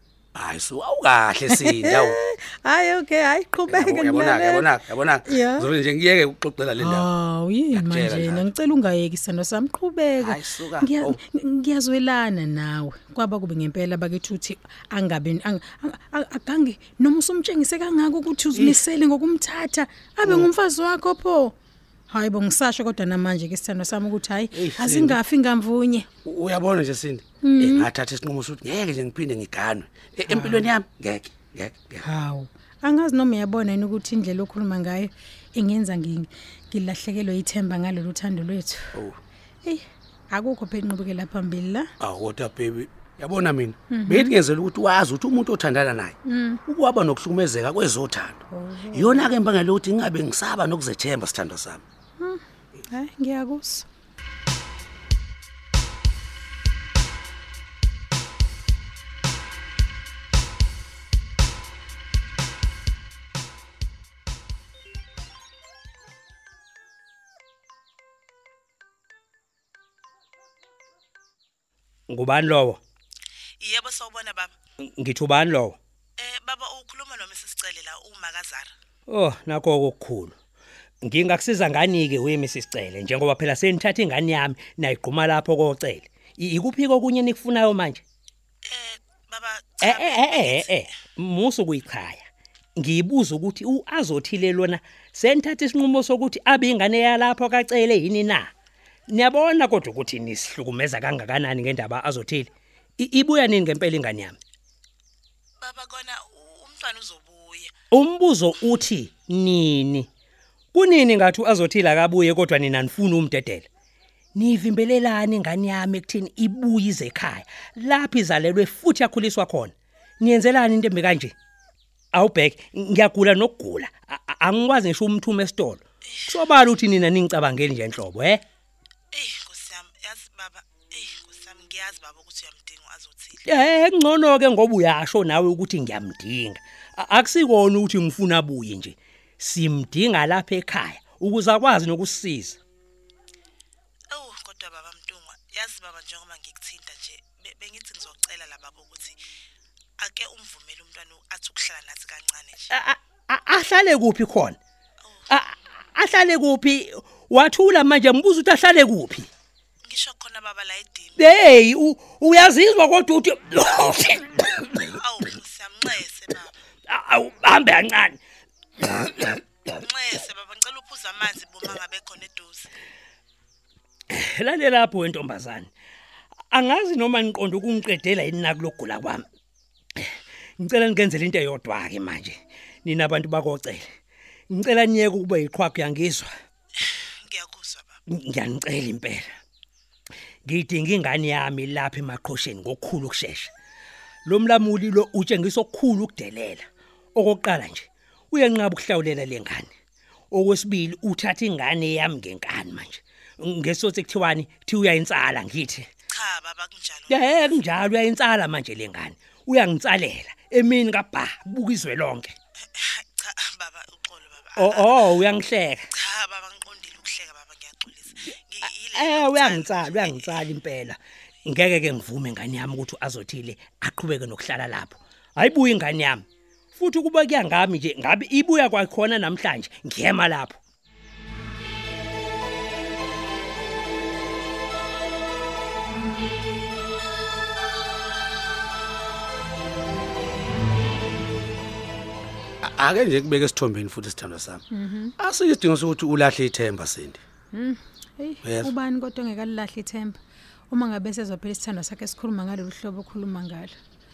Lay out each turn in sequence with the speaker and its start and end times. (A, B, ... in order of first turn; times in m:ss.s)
0:00.3-0:02.2 A
0:01.6-0:05.7 B
0:03.7-0:07.1 A
0:06.8-0:21.5 B
0:07.7-0:08.5 A
0:10.2-0:11.2 A
0:18.5-0:18.8 A
0:22.1-0:26.1 B
0:24.5-0:25.2 A
0:26.2-0:32.0 A
0:27.4-0:27.9 B
0:30.3-0:30.7 B
0:32.0-0:39.0 B
0:39.6-0:41.9 B
0:42.0-0:46.2 A
0:43.9-0:44.3 B
0:46.3-0:46.6 B
0:46.7-0:48.4 A
0:48.5-0:49.3 B
0:48.9-0:51.8 A
0:52.2-0:53.8 B
1:12.1-1:12.8 C
1:13.6-1:14.5 D
1:15.0-1:15.8 C
1:16.2-1:18.7 D
1:19.1-1:20.3 C
1:21.0-1:28.0 C
1:28.7-1:29.8 D
1:29.8-1:38.5 C
1:39.1-1:44.4 C
1:45.6-1:47.7 D
1:47.9-1:50.1 C
1:50.7-1:53.6 C
1:54.4-2:01.3 C
2:02.1-2:08.4 C
2:09.1-2:13.3 D
2:13.4-2:22.6 C
2:24.1-2:29.2 D
2:30.0-2:32.6 D
2:32.7-2:34.6 C
2:35.3-2:39.3 C
2:39.8-2:41.1 D
2:41.2-2:44.9 C
2:45.0-2:46.5 D
2:46.9-2:48.2 C
2:48.8-2:49.4 C
2:49.8-2:52.7 D
2:54.1-2:55.7 C
2:56.5-2:59.2 C
3:00.0-3:03.8 C
3:04.5-3:06.3 C
3:07.3-3:07.9 D
3:08.1-3:09.3 C
3:10.4-3:13.5 C
3:14.2-3:19.7 C
3:20.3-3:25.9 C
3:26.1-3:27.0 D
3:27.1-3:32.4 C
3:33.2-3:34.5 D
3:34.5-3:35.8 C
3:36.1-3:38.9 D
3:38.9-3:50.6 C
4:02.6-4:04.6 A
4:04.7-4:05.1 B
4:05.2-4:07.2 A
4:07.5-4:10.2 B
4:08.4-4:08.7 A
4:10.7-4:13.8 B